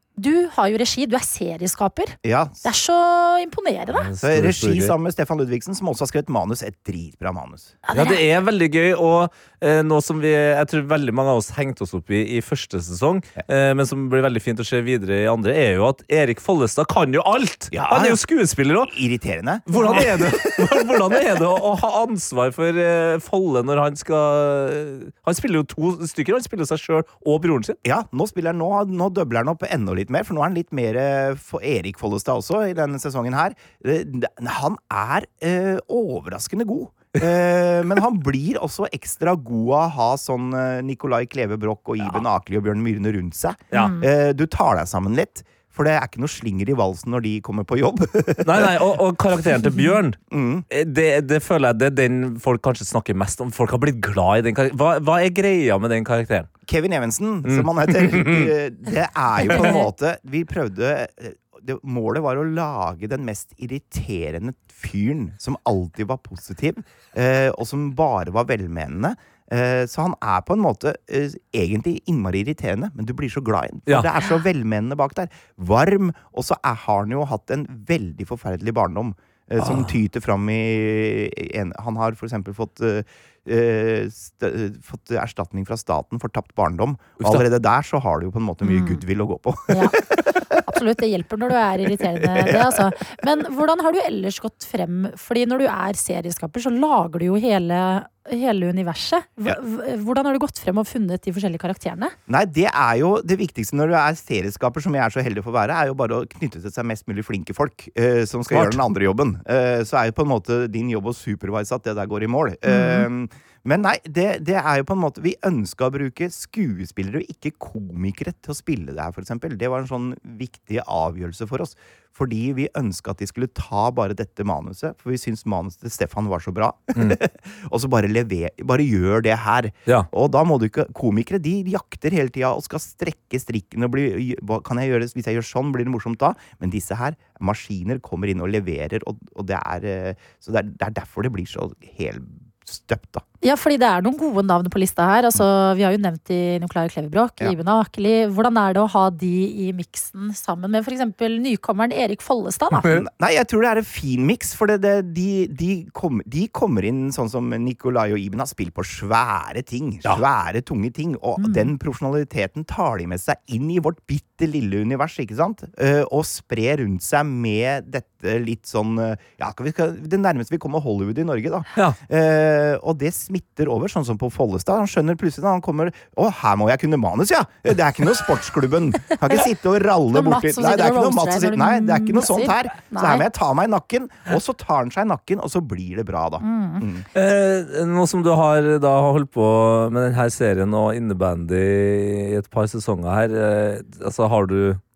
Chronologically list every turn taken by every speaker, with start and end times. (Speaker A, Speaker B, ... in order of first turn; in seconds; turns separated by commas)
Speaker A: 0.2-4.1, Speaker B: 2.2-2.6, Speaker C: 4.0-5.0, Speaker B: 4.2-7.8, Speaker A: 7.8-8.2, Speaker C: 7.9-18.9, Speaker B: 17.7-18.2, Speaker B: 18.8-20.5, Speaker C: 19.7-27.8, Speaker A: 19.7-20.1, Speaker B: 27.8-48.8, Speaker C: 42.0-42.2, Speaker A: 43.7-44.0, Speaker C: 48.4-56.5, Speaker B: 50.3-50.6, Speaker B: 56.6-90.5, Speaker C: 57.5-58.5, Speaker A: 59.4-59.9, Speaker C: 79.6-80.0, Speaker C: 87.2-87.5, Speaker A: 88.6-89.0, Speaker A: 89.7-90.0, Speaker A: 90.6-102.2, Speaker B: 92.4-93.0, Speaker B: 102.3-143.2, Speaker C: 108.5-108.8, Speaker A: 112.7-113.1, Speaker A: 143.4-152.9, Speaker B: 152.9-187.1, Speaker A: 161.4-161.7, Speaker A: 180.1-183.2, Speaker A: 186.4-186.8, Speaker C: 187.1-194.8